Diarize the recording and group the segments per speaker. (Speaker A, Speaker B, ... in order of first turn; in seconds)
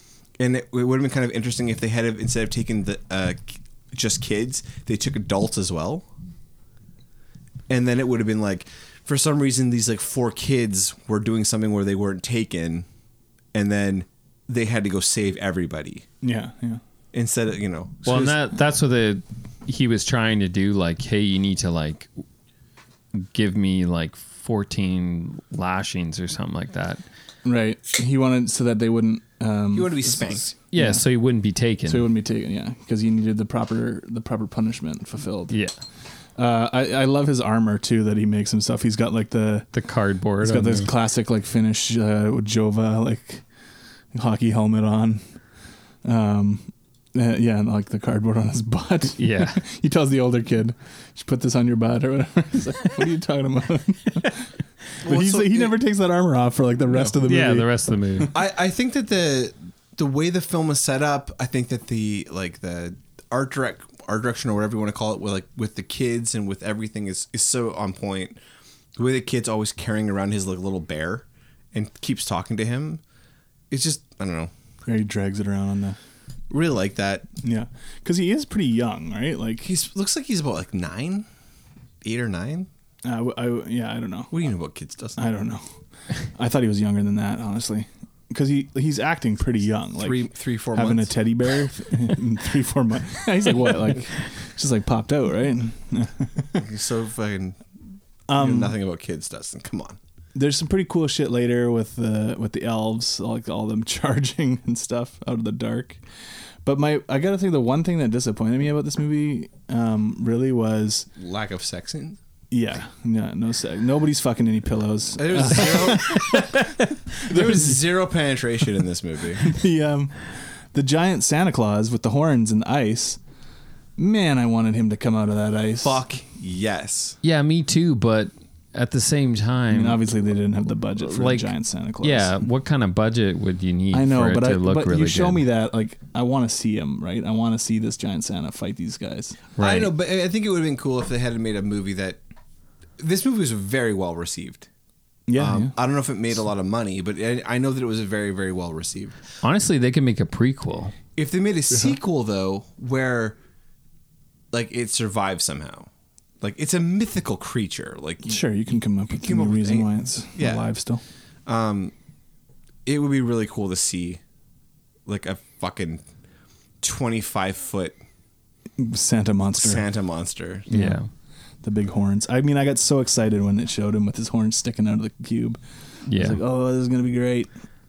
Speaker A: 0.4-6.0, 7.7-12.8, 13.5-16.1, 17.1-18.4, 29.7-30.5, 55.0-55.8, 58.3-68.4, 69.0-73.0, 73.7-74.5, 76.5-77.3, 79.6-81.3, 82.0-82.7, 84.3-85.3, 90.0-91.1, 96.5-97.6, 98.3-100.0, 111.2-112.2, 115.2-119.5, 125.8-127.2, 139.6-142.2, 143.0-144.7, 145.3-149.2, 151.1-153.4, 154.5-155.9, 156.4-158.4, 159.1-160.7, 161.4-161.9, 162.8-164.2, 165.1-166.0, 166.8-168.0, 169.5-170.7
Speaker B: 16.2-16.8, 27.4-31.0, 31.9-35.6, 36.4-39.7, 40.4-43.4, 44.1-45.2, 46.0-54.5, 55.0-58.3, 74.8-76.0, 77.4-79.7, 83.0-84.3, 85.2-85.7, 86.3-96.6, 98.3-98.8, 100.3-106.0, 106.6-111.1, 112.5-116.6, 117.3-117.8, 119.4-123.2, 124.0-126.0, 129.7-132.4, 133.9-139.4, 145.3-145.7, 158.2-161.0, 168.8-169.8, 170.7-171.0, 171.6-175.6, 176.1-177.5
Speaker C: 18.1-22.1, 23.1-27.0, 30.7-32.1, 39.7-40.9, 49.2-49.6, 57.2-58.3, 127.2-130.0, 131.0-135.4, 139.6-139.9, 149.4-150.9, 170.7-171.1, 176.1-176.4